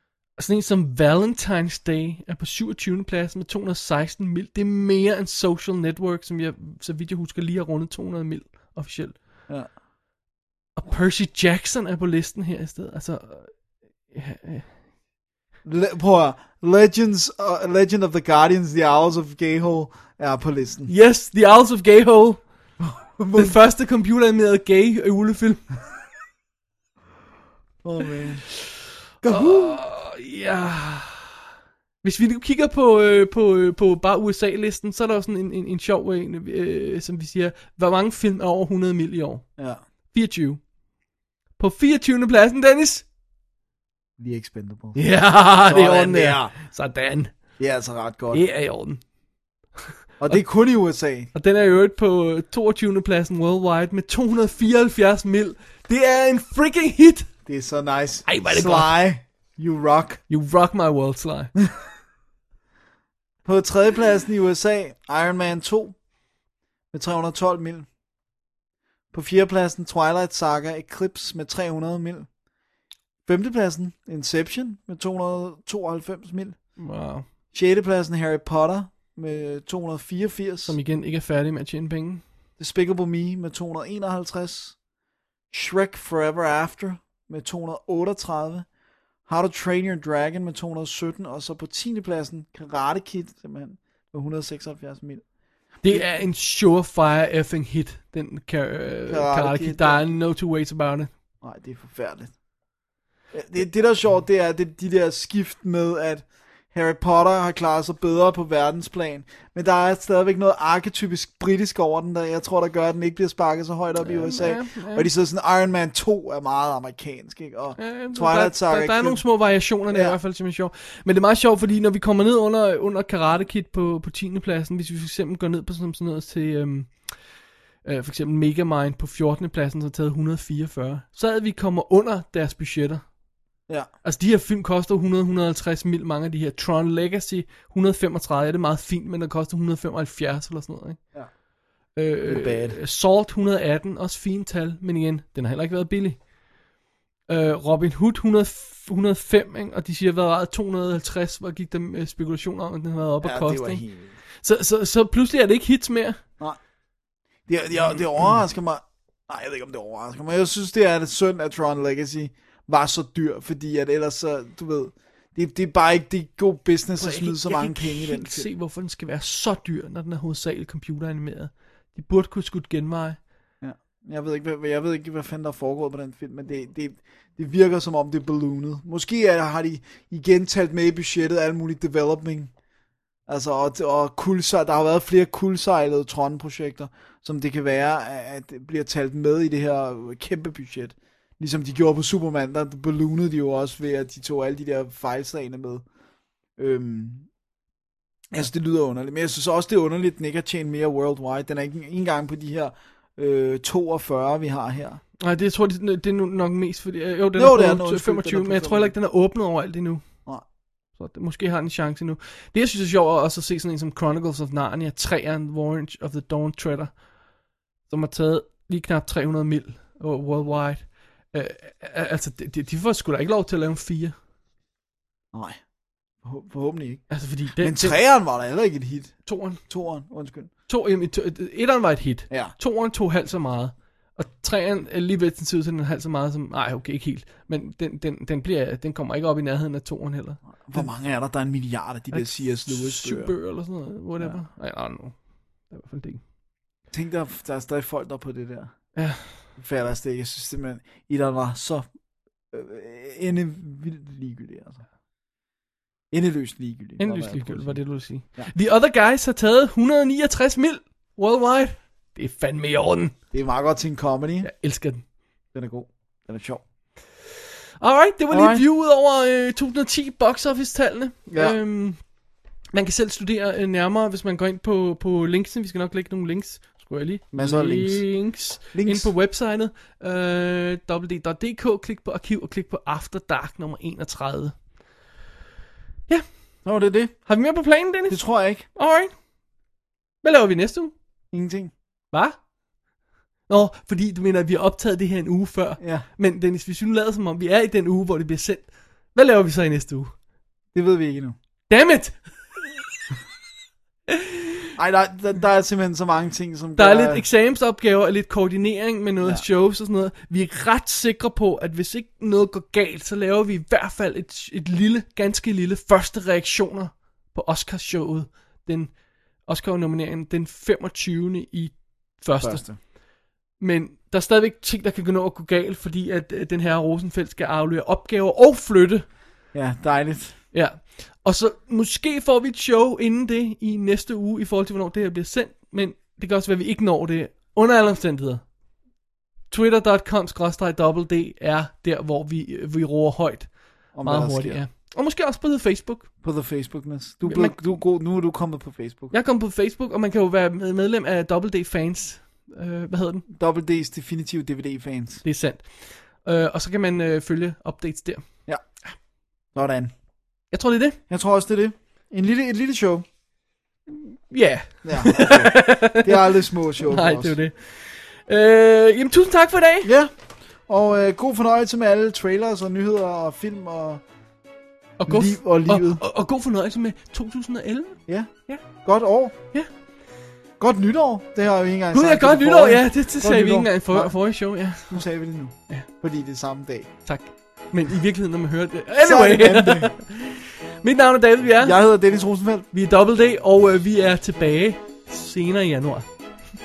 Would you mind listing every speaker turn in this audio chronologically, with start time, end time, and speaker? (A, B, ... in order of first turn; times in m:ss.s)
0:00.4-0:09.2 A
0:10.8-0:13.6 A
0:14.1-0:14.8 A
0:15.6-0:20.9 B
0:20.8-0:22.4 A
0:22.8-0:23.6 B
0:23.3-0:25.6 A
0:27.8-0:28.5 B
0:29.2-0:29.8 B
0:29.2-0:31.3 A
0:32.0-0:39.4 A
0:40.1-0:40.6 A
0:41.6-0:43.0 A
0:44.2-0:46.5 B
0:44.9-0:47.3 A
0:47.6-0:48.4 B
0:48.3-0:49.0 A
0:50.2-0:51.3 B
0:51.3-0:57.3 A
0:57.4-1:00.2 B
0:58.3-0:58.9 A
1:00.3-1:01.5 A
1:03.4-1:06.0 B
1:06.9-1:07.9 B
1:09.1-1:12.3 B
1:13.2-1:16.6 B
1:16.8-1:17.2 A
1:17.5-1:20.8 B
1:20.7-1:22.2 A
1:22.6-1:24.8 B
1:25.5-1:28.7 B
1:29.2-1:35.2 B
1:35.8-1:41.1 A
1:39.1-1:40.0 B
1:41.4-1:42.3 B
1:43.3-1:59.2 B
1:54.0-1:55.1 A
1:57.8-2:07.1 A
1:59.9-2:00.2 B
2:07.8-2:13.0 A
2:14.0-2:21.0 A
2:22.0-2:26.2 A
2:22.2-2:22.8 B
2:27.3-2:33.8 A
2:33.2-2:34.1 B
2:34.4-2:36.2 A
2:37.5-2:48.5 B
2:47.0-2:53.2 A
2:53.6-3:02.5 B
3:03.3-3:15.8 B
3:16.6-3:17.3 B
3:18.3-3:25.0 B
3:25.2-3:30.0 A
3:27.4-3:28.9 B
3:30.9-3:37.0 A
3:37.9-3:44.1 A
3:45.3-3:45.6 B
3:46.2-3:50.5 B
3:47.1-3:48.0 A
3:49.2-3:49.6 A
3:50.7-4:00.9 A
4:00.6-4:03.4 B
4:02.1-4:06.2 A
4:06.9-4:08.7 B
4:09.0-4:09.4 A
4:09.6-4:11.9 B
4:12.5-4:14.8 B
4:16.1-4:18.5 B
4:17.0-4:23.1 A
4:23.3-4:24.5 B
4:24.4-4:25.0 A
4:25.5-4:26.6 B
4:27.8-4:32.0 A
4:28.3-4:28.6 B
4:31.3-4:31.6 B
4:32.7-4:44.6 A
4:37.3-4:39.1 B
4:46.6-4:47.2 B
4:47.2-4:49.1 A
4:48.1-4:48.6 B
4:50.2-4:50.9 A
4:51.3-4:51.7 B
4:52.1-4:52.4 A
4:53.5-5:00.1 A
4:55.8-4:56.0 B
5:00.7-5:01.4 B
5:01.7-5:02.2 A
5:04.1-5:04.5 A
5:04.8-5:07.2 B
5:06.8-5:22.9 A
5:22.4-5:22.8 B
5:23.6-5:29.0 A
5:29.5-5:30.4 B
5:30.5-5:38.4 A
5:39.5-5:46.1 A
5:43.9-5:44.6 B
5:46.2-5:49.1 B
5:47.2-5:47.6 A
5:49.1-5:53.2 A
5:53.3-5:55.2 B
5:55.2-5:58.2 A
5:59.5-5:59.9 B
6:00.5-6:01.0 A
6:01.1-6:03.0 B
6:03.9-6:09.9 A
6:04.8-6:07.4 B
6:09.8-6:10.1 B
6:10.7-6:14.0 B
6:15.0-6:18.6 A
6:15.1-6:16.0 B
6:18.1-6:19.3 B
6:20.6-6:24.1 B
6:21.9-6:25.0 A
6:24.9-6:26.9 B
6:27.0-6:31.8 A
6:29.0-6:30.0 B
6:31.6-6:32.7 B
6:32.7-6:36.1 A